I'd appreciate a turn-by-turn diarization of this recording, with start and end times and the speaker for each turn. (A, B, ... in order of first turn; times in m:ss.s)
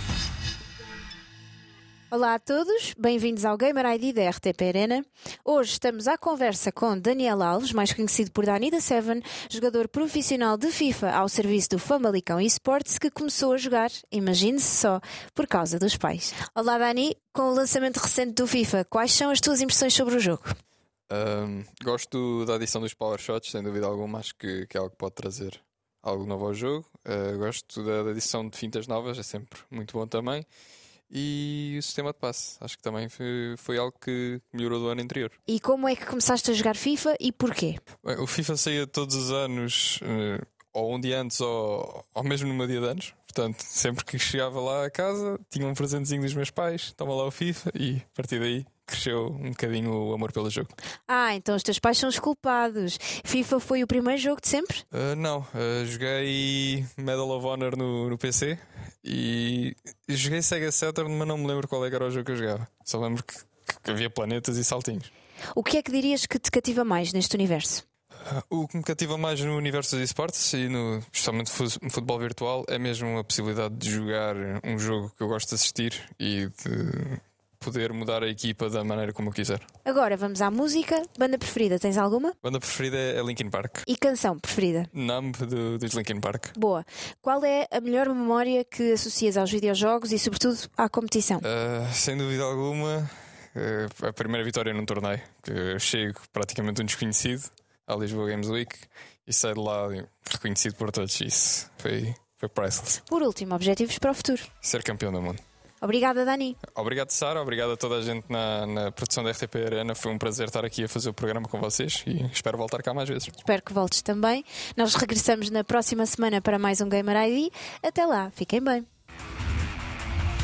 0:02.1-0:20.5 A
0:21.1-0:30.4 B
0:31.1-0:35.4 B
0:35.5-0:37.8 A
0:38.0-0:50.7 B
0:51.1-0:54.8 A
0:54.9-1:05.1 B
1:05.5-1:07.8 A
1:08.2-1:19.6 B
1:19.8-1:22.3 A
1:22.4-1:23.8 B
1:23.9-1:24.9 A
1:24.9-1:26.5 B
1:26.6-1:31.4 A
1:31.4-1:43.0 B
1:43.1-1:44.5 A
1:44.6-1:45.4 B
1:45.8-1:46.6 A
1:46.7-1:53.4 B
1:53.4-1:58.8 A